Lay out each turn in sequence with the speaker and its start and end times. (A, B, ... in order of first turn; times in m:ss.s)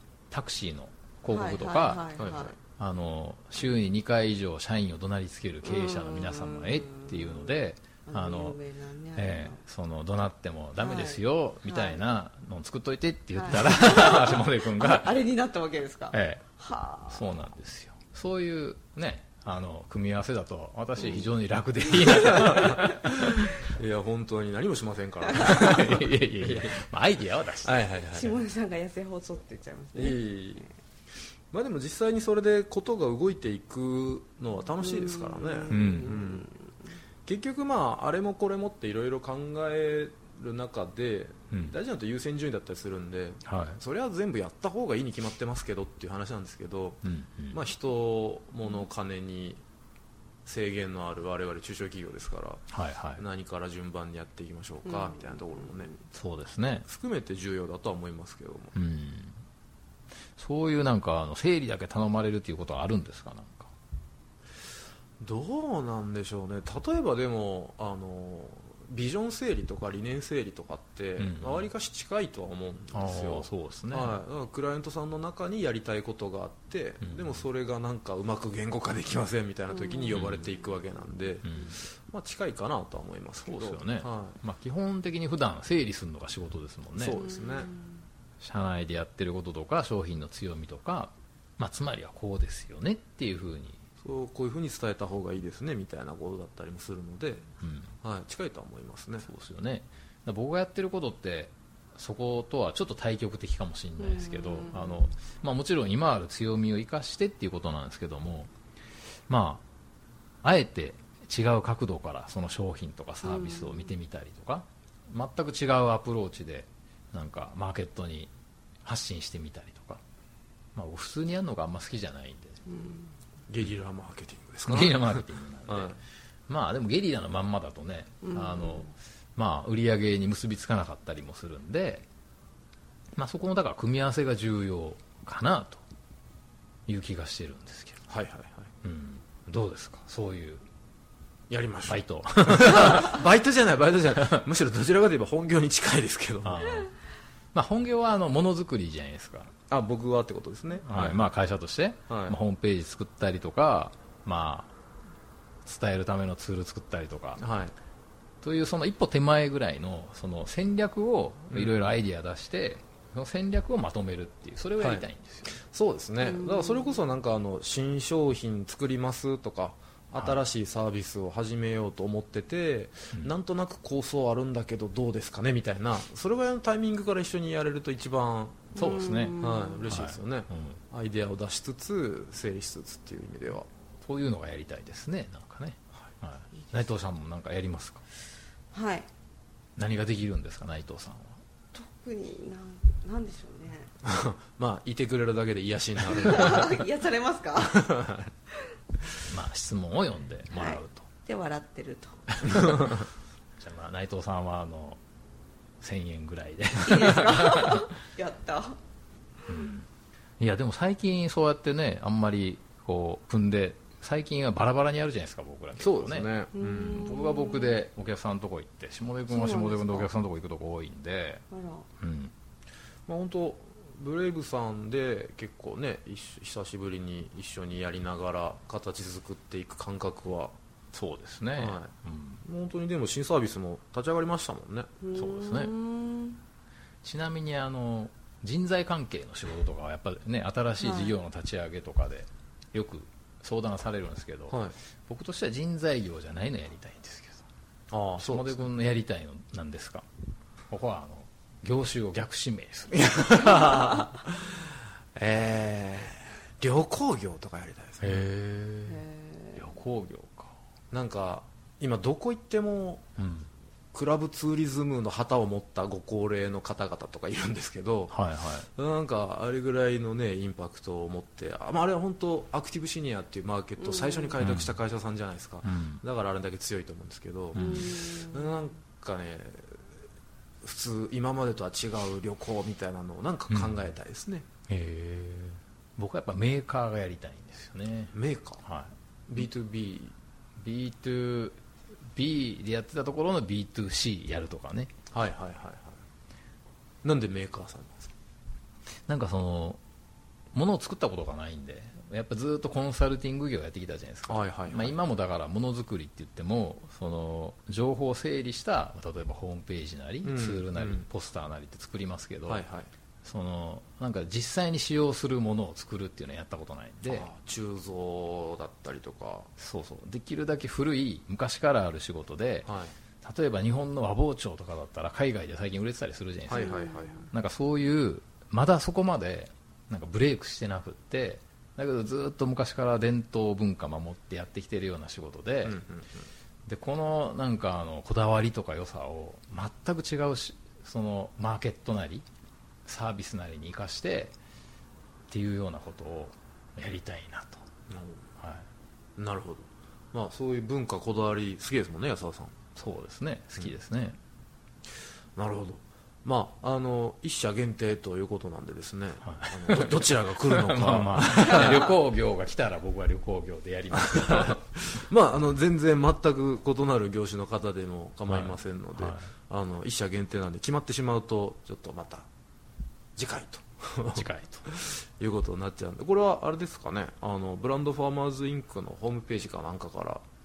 0:00.3-0:02.2 A
0:01.3-0:02.6 B
0:02.2-0:02.5 C
0:02.8-0:08.6 A
0:05.6-0:09.6 B
0:09.2-0:15.2 A
0:10.8-0:12.0 B
0:13.4-0:17.4 B
0:16.1-0:16.4 A
0:17.1-0:23.4 A
0:21.0-0:21.3 C
0:22.1-0:22.9 C
0:23.4-0:26.8 C
0:25.3-0:27.9 A
0:27.6-0:28.4 C
0:28.1-0:30.7 B
0:29.9-0:30.6 C
0:31.5-0:36.5 C
0:34.8-0:36.8 B
0:35.7-0:36.2 A
0:37.3-0:49.6 C
0:43.5-0:43.8 A
0:47.0-0:47.6 A
0:50.4-0:52.6 C
0:52.7-0:53.2 A
0:53.2-0:55.9 C
0:54.9-0:56.0 B
0:56.1-0:56.9 A
0:56.8-0:58.8 C
0:58.8-0:59.4 A
1:00.4-1:03.7 A
1:05.2-1:24.4 C
1:11.2-1:11.7 A
1:12.9-1:14.2 A
1:17.1-1:17.4 A
1:19.7-1:20.2 B
1:20.1-1:20.5 A
1:21.4-1:21.8 A
1:23.5-1:27.2 A
1:27.0-1:27.7 C
1:27.2-1:28.0 B
1:28.4-1:33.8 A
1:34.0-1:37.5 C
1:37.6-1:37.9 A
1:38.0-1:39.3 C
1:39.2-1:48.5 A
1:44.0-1:45.1 B
1:49.3-1:49.6 A
1:50.4-1:58.3 A
1:53.2-1:53.9 B
1:58.8-2:00.0 A
2:00.8-2:02.6 A
2:02.7-2:03.1 B
2:03.5-2:06.0 C
2:04.7-2:06.0 A
2:06.5-2:12.0 A
2:08.2-2:08.9 B
2:13.2-2:15.8 A
2:16.9-2:18.0 A
2:18.1-2:18.7 C
2:18.8-2:20.6 A
2:21.5-2:26.8 C
2:21.9-2:23.2 A
2:26.4-2:26.9 A
2:27.5-2:29.5 A
2:29.7-2:31.2 C
2:30.9-2:34.7 A
2:32.1-2:32.4 C
2:35.6-2:37.4 A
2:37.4-2:37.7 C
2:38.4-2:45.6 A
2:41.5-2:41.8 C
2:44.8-2:58.7 C
2:46.2-2:47.0 B
2:58.8-3:00.0 B
2:58.8-3:00.8 A
2:59.4-3:03.7 C
3:04.0-3:08.0 A
3:08.7-3:09.1 B
3:09.8-3:11.4 A
3:11.7-3:13.9 B
3:14.0-3:16.8 C
3:16.1-3:17.9 B
3:17.7-3:18.3 C
3:19.3-3:21.1 A
3:20.5-3:22.2 B
3:22.5-3:22.7 A
3:23.6-3:25.0 A
3:25.8-3:27.8 A
3:26.8-3:28.8 B
3:29.5-3:29.9 A
3:30.4-3:41.4 A
3:35.8-3:37.2 C
3:36.5-3:37.8 B
3:39.3-3:40.1 B
3:41.5-3:41.9 B
3:42.0-3:42.3 A
3:43.1-3:50.6 C
3:50.9-3:52.4 A
3:51.6-3:51.9 C
3:52.4-3:54.9 C
3:55.0-3:56.4 B
3:55.1-3:55.7 A
3:57.0-4:07.5 A
4:00.8-4:01.2 B
4:04.5-4:04.8 C
4:07.9-4:08.7 C
4:08.2-4:10.1 A
4:10.7-4:13.0 A
4:12.9-4:18.5 C
4:18.0-4:19.0 A
4:18.9-4:19.6 B
4:19.6-4:20.6 A
4:20.9-4:23.0 C
4:23.2-4:23.5 A
4:23.9-4:28.2 C
4:28.1-4:28.7 A
4:28.8-4:39.8 C
4:33.8-4:34.3 B
4:34.4-4:34.8 A
4:35.6-4:36.0 A
4:37.6-4:37.9 A
4:37.6-4:38.6 B
4:40.6-4:44.4 C
4:43.5-4:43.9 A
4:44.7-4:48.9 A
4:48.1-4:48.6 C
4:49.3-4:50.2 C
4:50.6-4:51.6 A
4:52.1-4:54.9 A
4:55.1-4:56.0 C
4:57.0-4:58.1 C
4:59.1-4:59.8 A
5:00.5-5:12.6 A
5:04.3-5:05.0 C
5:10.2-5:11.1 C
5:12.5-5:12.9 C
5:13.2-5:17.3 A
5:17.1-5:19.5 C
5:19.6-5:22.7 A
5:22.6-5:22.9 C
5:23.2-5:26.8 A
5:26.5-5:27.3 C
5:26.6-5:27.2 B
5:27.3-5:35.8 A
5:35.6-5:36.3 C
5:36.7-5:42.3 A
5:42.9-5:44.4 A
5:45.3-5:47.6 A
5:47.9-5:48.2 C
5:48.4-5:48.7 A
5:49.2-5:52.6 C
5:52.8-5:54.2 A
5:55.4-6:02.0 C
5:59.3-6:04.6 A
6:04.0-6:12.3 C
6:08.3-6:09.3 A
6:13.2-6:20.2 C
6:14.2-6:14.6 A